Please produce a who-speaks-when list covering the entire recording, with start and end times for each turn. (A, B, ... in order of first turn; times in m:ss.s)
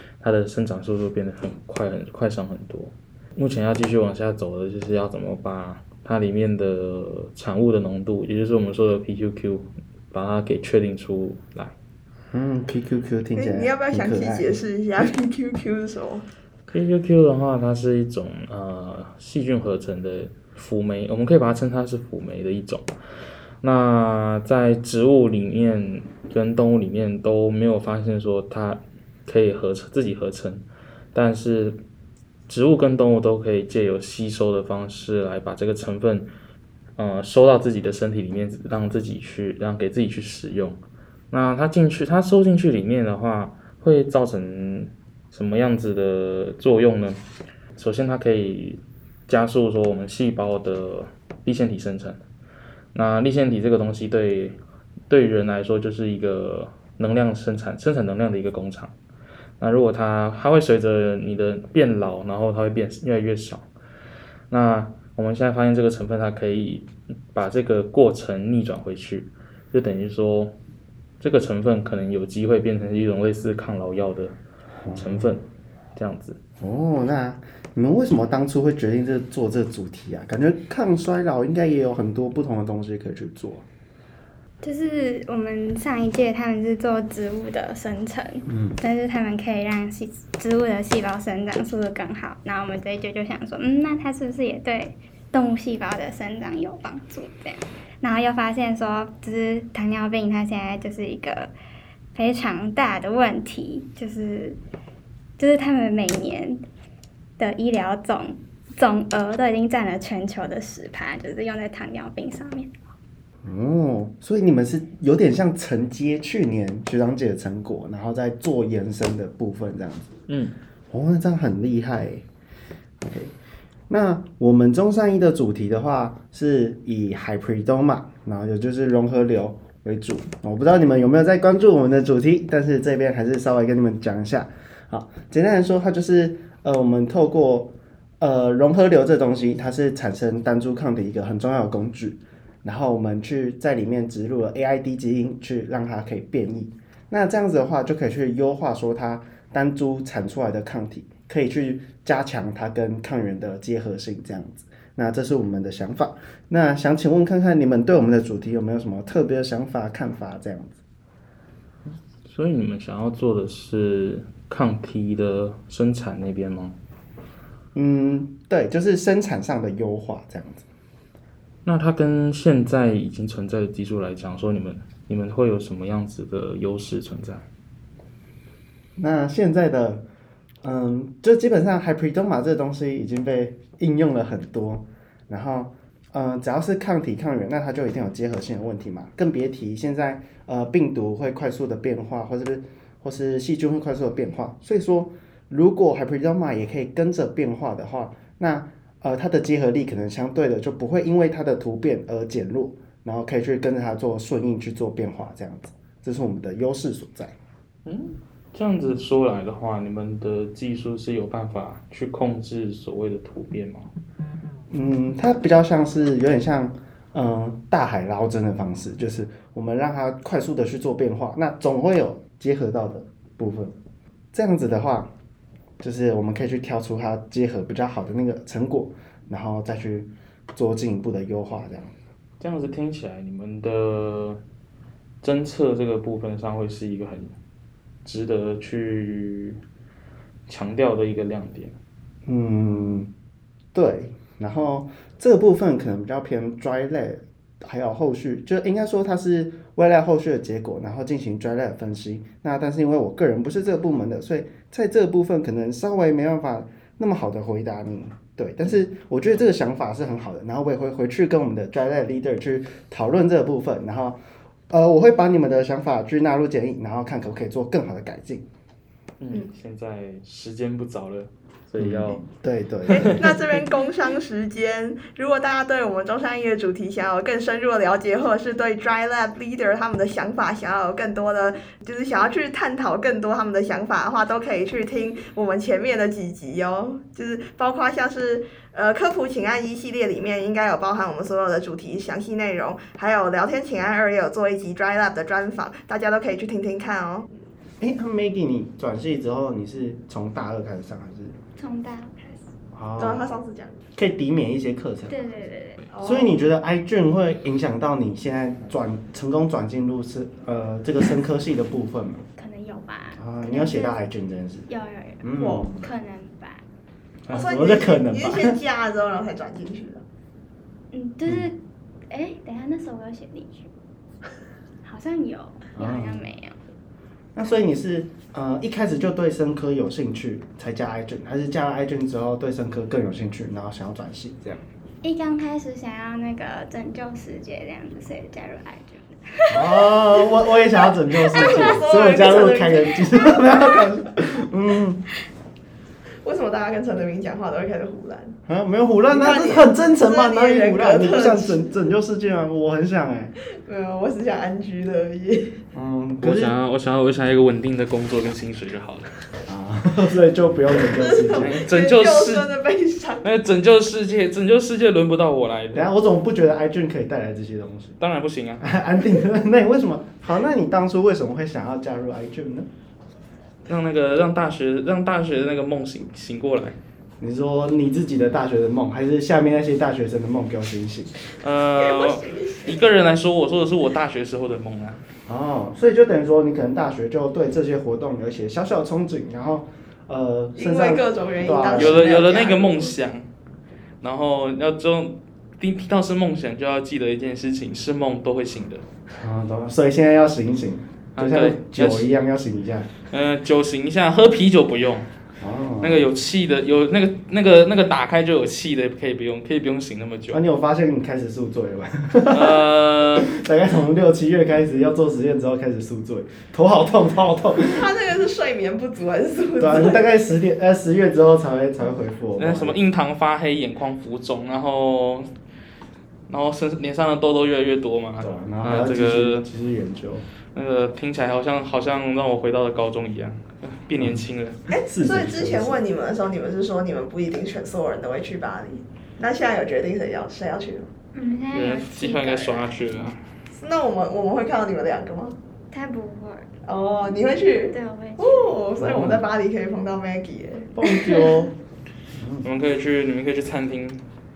0:00.2-0:11.7 A
0:12.3-0:14.6 B
0:13.4-0:16.2 C
0:16.7-0:22.9 A
0:23.6-0:31.8 A
0:32.5-0:36.3 A
0:37.0-0:40.8 A
0:41.3-0:47.2 A
0:47.7-0:52.2 A
0:52.9-0:54.6 A
0:55.1-0:58.9 A
0:59.6-1:03.7 A
1:04.5-1:10.6 A
1:11.2-1:14.4 A
1:14.8-1:15.3 B
1:14.9-1:16.4 A
1:16.6-1:23.6 B
1:24.6-1:41.5 D
1:28.5-1:28.8 B
1:42.1-1:44.6 D
1:45.4-1:46.6 D
1:47.4-1:52.7 D
1:53.4-2:00.1 B
2:00.3-2:00.5 A
2:00.9-2:02.2 B
2:03.0-2:03.3 B
2:03.9-2:40.8 B
2:42.2-2:46.8 A
2:47.7-2:50.6 B
2:51.6-2:57.4 A
2:59.0-3:00.0 B
3:00.6-3:27.3 B
3:27.8-3:33.9 A
3:34.7-3:43.7 B
3:44.3-3:45.1 B
3:45.8-3:51.9 B
3:52.4-3:54.4 A
3:55.2-3:57.4 A
3:58.0-3:59.6 A
4:00.5-4:01.8 A
4:02.2-4:03.1 B
4:03.7-4:24.2 B
4:24.7-4:28.4 B
4:29.2-4:32.2 A
4:31.8-4:33.2 B
4:32.9-4:57.3 C
4:32.9-4:33.3 A
4:57.8-5:01.4 B
5:01.6-5:02.4 D
5:02.7-5:03.4 B
5:03.0-5:03.8 C
5:04.0-5:05.2 B
5:05.1-5:05.8 D
5:05.9-5:06.3 C
5:06.0-5:12.2 B
5:12.3-5:14.0 D
5:13.2-5:14.7 B
5:14.7-5:16.6 D
5:15.2-5:15.9 B
5:15.4-5:15.7 C
5:17.3-5:18.6 B
5:17.3-5:20.0 C
5:20.9-5:21.6 D
5:21.2-5:21.5 B
5:22.1-5:23.7 D
5:24.8-5:26.6 D
5:25.8-5:26.2 B
5:27.3-5:34.6 B
5:35.0-5:40.2 D
5:39.5-5:45.0 B
5:41.3-5:43.8 C
5:41.4-5:41.7 D
5:46.2-5:48.4 C
5:48.5-5:53.3 B
5:49.1-5:51.7 C
5:53.6-5:55.6 C
5:55.7-5:56.6 B
5:56.2-5:59.1 A
5:59.4-6:01.6 B
6:00.9-6:03.3 C
6:01.4-6:02.5 A
6:03.2-6:05.8 A
6:05.7-6:08.0 B
6:08.0-6:08.7 A
6:08.6-6:12.7 B
6:13.6-6:16.8 A
6:17.2-6:21.2 B
6:21.4-6:25.0 A
6:21.8-6:22.8 C
6:25.3-6:32.1 B
6:30.5-6:32.9 C
6:31.8-6:33.2 A
6:34.0-6:38.8 A
6:39.1-6:42.9 B
6:41.2-6:42.1 A
6:43.0-6:45.1 A
6:45.4-6:46.1 B
6:45.8-6:50.4 A
6:50.3-6:57.9 B
6:52.3-6:53.3 A
6:57.6-7:00.2 C
6:59.6-7:02.8 B
7:02.4-7:05.3 A
7:06.3-7:09.4 A
7:08.2-7:10.2 B
7:10.5-7:14.6 A
7:14.0-7:15.8 B
7:14.7-7:20.9 C
7:21.1-7:22.7 D
7:21.5-7:23.2 A
7:23.5-7:25.4 C
7:25.7-7:26.5 D
7:26.6-7:31.3 C
7:27.6-7:28.6 D
7:28.8-7:29.2 B
7:30.7-7:31.5 B
7:32.2-7:32.5 B
7:32.4-7:34.0 A